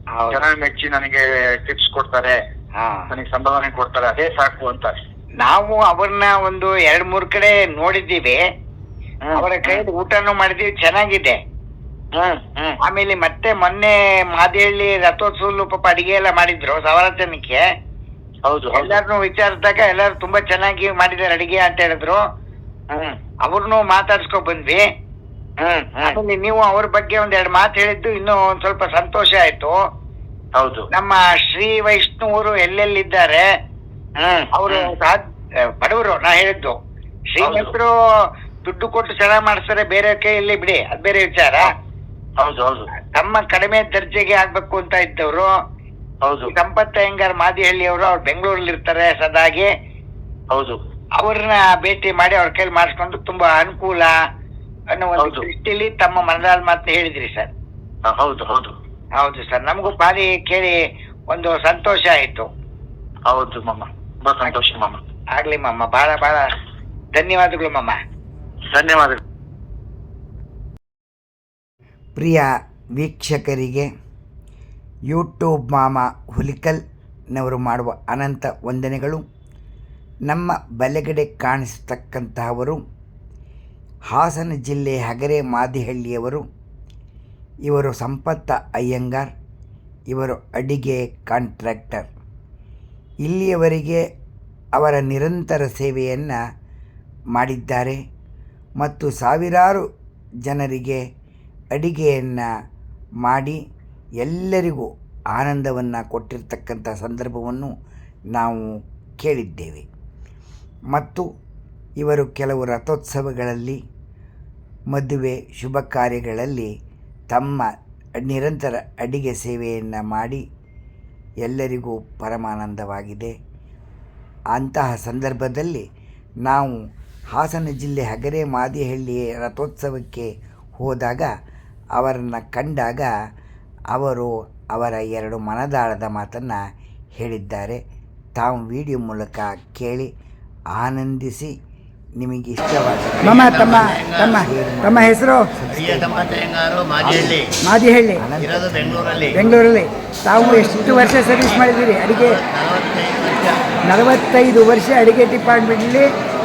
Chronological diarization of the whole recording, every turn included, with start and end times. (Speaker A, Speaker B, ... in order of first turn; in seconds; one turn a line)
Speaker A: 0.2-0.4
Speaker B: 0.3-2.4
Speaker A: 2.8-3.1
Speaker B: 3.1-5.0
Speaker A: 5.4-8.4
Speaker B: 9.2-9.8
Speaker A: 9.4-11.4
Speaker B: 12.2-12.8
Speaker A: 12.9-17.6
Speaker B: 18.5-19.0
Speaker A: 18.8-22.2
Speaker A: 23.5-24.8
Speaker B: 25.6-26.2
Speaker A: 26.0-29.7
Speaker B: 30.6-30.9
Speaker A: 30.9-33.4
Speaker B: 34.2-34.9
Speaker A: 34.5-35.2
Speaker A: 35.8-36.8
Speaker A: 37.4-37.9
Speaker B: 37.4-37.7
Speaker A: 38.7-41.7
Speaker B: 42.4-42.9
Speaker A: 43.1-45.5
Speaker B: 46.2-46.5
Speaker A: 46.5-49.7
Speaker B: 50.5-50.8
Speaker A: 51.2-54.1
Speaker A: 55.0-57.5
Speaker B: 55.2-55.5
Speaker B: 58.1-58.7
Speaker A: 59.2-60.8
Speaker A: 61.3-62.5
Speaker B: 63.3-65.0
Speaker A: 65.4-66.4
Speaker A: 67.2-68.0
Speaker B: 68.7-69.2
Speaker C: 72.2-73.9
Speaker C: 75.1-76.8
Speaker C: 77.3-79.2
Speaker C: 80.3-82.8
Speaker C: 84.1-86.5
Speaker C: 87.7-89.3
Speaker C: 90.1-92.1
Speaker C: 93.2-94.0
Speaker C: 94.8-96.4
Speaker C: 97.4-98.0
Speaker C: 98.8-99.8
Speaker C: 100.5-101.0
Speaker C: 101.7-102.5
Speaker C: 103.2-103.6
Speaker C: 104.2-107.7
Speaker C: 108.3-109.9
Speaker C: 110.9-111.2
Speaker C: 112.0-113.8
Speaker C: 114.9-116.7
Speaker C: 117.3-120.4
Speaker C: 121.5-123.3
Speaker C: 124.5-125.8
Speaker C: 126.5-126.8
Speaker C: 127.3-131.3
Speaker C: 132.0-133.1
Speaker C: 133.9-136.6
Speaker C: 137.2-137.8
Speaker C: 138.4-140.1
Speaker C: 140.8-141.5
Speaker C: 142.2-146.5
Speaker D: 143.2-144.5
Speaker D: 145.1-156.1
Speaker C: 147.0-147.5
Speaker C: 148.2-149.5